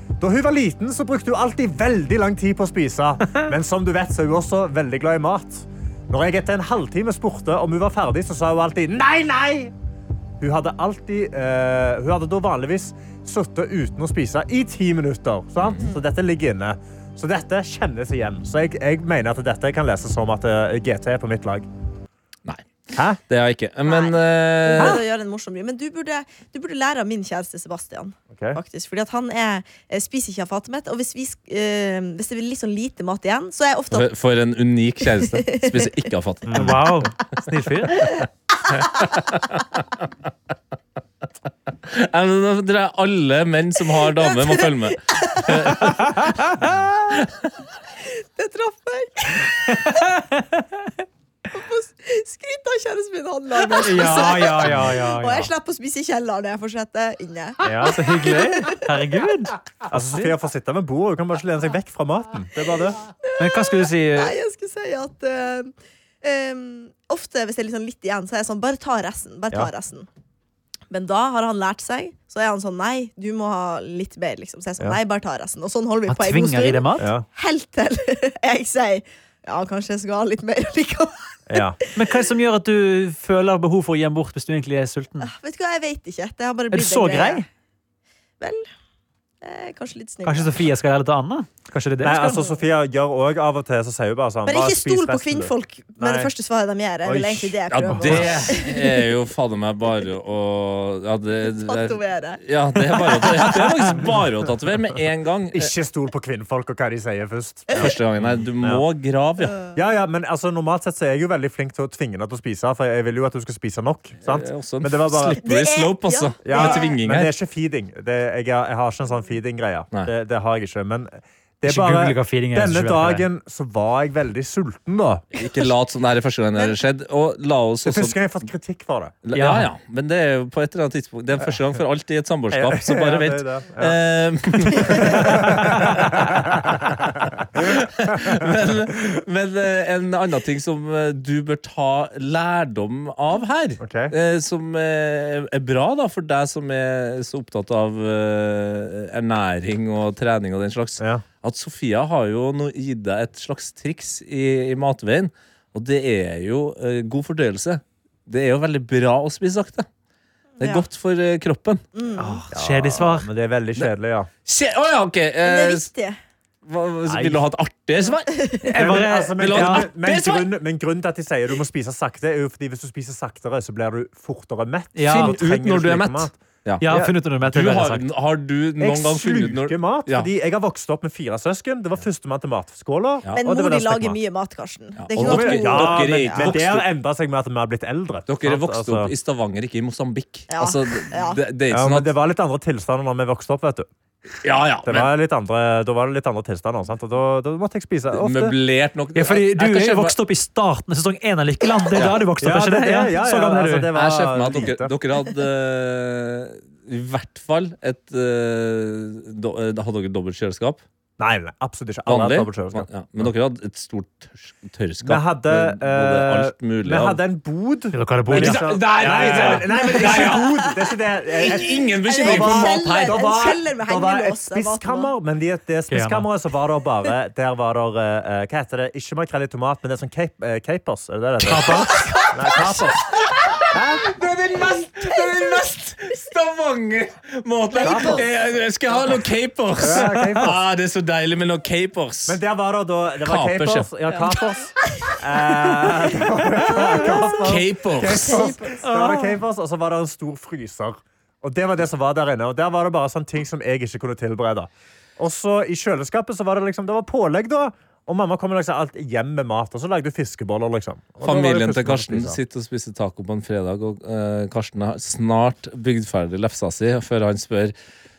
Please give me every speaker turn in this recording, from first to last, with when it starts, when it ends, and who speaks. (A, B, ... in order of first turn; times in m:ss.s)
0:00.2-0:09.7 A
0:10.4-0:21.7 A
0:15.6-0:15.9 B
0:22.9-0:23.2 A
0:23.3-0:25.0 B
0:23.8-0:34.1 C
0:28.3-0:28.6 A
0:33.9-0:37.1 B
0:35.1-0:36.1 C
0:36.5-0:36.8 A
0:36.6-0:38.1 D
0:38.7-0:39.6 B
0:41.9-0:47.3 B
0:44.0-0:46.0 C
0:48.0-0:50.1 C
0:49.7-0:50.6 D
0:51.5-0:58.8 C
0:53.7-0:55.5 D
0:57.6-0:58.1 A
0:57.6-1:00.3 D
0:59.9-1:03.0 A
1:03.3-1:10.1 C
1:03.4-1:04.4 D
1:10.9-1:21.9 C
1:16.1-1:17.1 D
1:17.0-1:17.3 A
1:21.5-1:21.8 A
1:22.0-1:25.3 D
1:25.2-1:27.4 C
1:26.7-1:27.5 D
1:28.4-1:28.6 C
1:29.4-1:30.5 C
1:30.2-1:32.4 D
1:32.0-1:36.3 A
1:34.5-1:39.1 C
1:37.0-1:37.6 A
1:37.7-1:45.7 B
1:37.9-1:38.4 D
1:41.4-1:43.6 C
1:45.5-1:48.8 A
1:47.8-1:49.6 B
1:49.8-1:55.4 A
1:54.2-1:57.3 B
1:55.4-1:56.9 C
1:56.4-2:05.3 A
2:01.6-2:03.3 D
2:05.4-2:08.2 B
2:07.8-2:09.2 A
2:09.2-2:39.9 B
2:09.4-2:09.7 D
2:12.5-2:14.0 A
2:14.5-2:16.9 A
2:23.8-2:24.2 A
2:40.6-2:41.8 B
2:42.0-2:42.4 C
2:42.2-2:43.3 D
2:42.5-2:44.3 A
2:44.4-2:45.9 B
2:45.4-2:46.2 C
2:46.7-2:48.4 B
2:47.1-2:47.4 A
2:48.4-2:48.7 C
2:48.7-2:49.9 D
2:48.7-2:57.1 A
2:49.4-2:50.5 B
2:55.0-2:55.4 D
2:55.1-2:56.8 B
2:56.8-2:58.0 D
2:57.4-3:00.3 B
2:58.8-3:04.2 A
3:03.4-3:06.5 C
3:05.0-3:06.9 B
3:05.2-3:09.1 A
3:08.3-3:12.1 B
3:10.5-3:11.4 C
3:11.7-3:13.9 A
3:14.4-3:15.1 B
3:14.9-3:18.6 A
3:18.1-3:20.2 B
3:19.2-3:23.9 D
3:22.0-3:22.2 B
3:22.4-3:25.0 A
3:23.9-3:30.8 B
3:31.2-3:33.3 A
3:32.1-3:37.2 B
3:35.0-3:53.1 A
3:37.9-3:39.6 D
3:38.3-3:40.8 B
3:39.8-3:40.4 C
3:41.4-3:43.2 B
3:41.4-3:45.1 C
3:45.9-3:46.3 D
3:51.4-3:52.1 D
3:51.7-3:53.6 C
3:53.7-3:54.1 A
3:54.1-4:02.4 B
3:55.0-3:56.2 C
3:57.7-3:58.2 C
3:57.8-3:58.3 A
3:59.8-4:00.6 A
4:02.3-4:22.4 A
4:03.2-4:03.9 B
4:04.8-4:07.4 C
4:07.3-4:08.6 B
4:08.2-4:08.9 C
4:08.8-4:09.3 D
4:21.2-4:27.7 B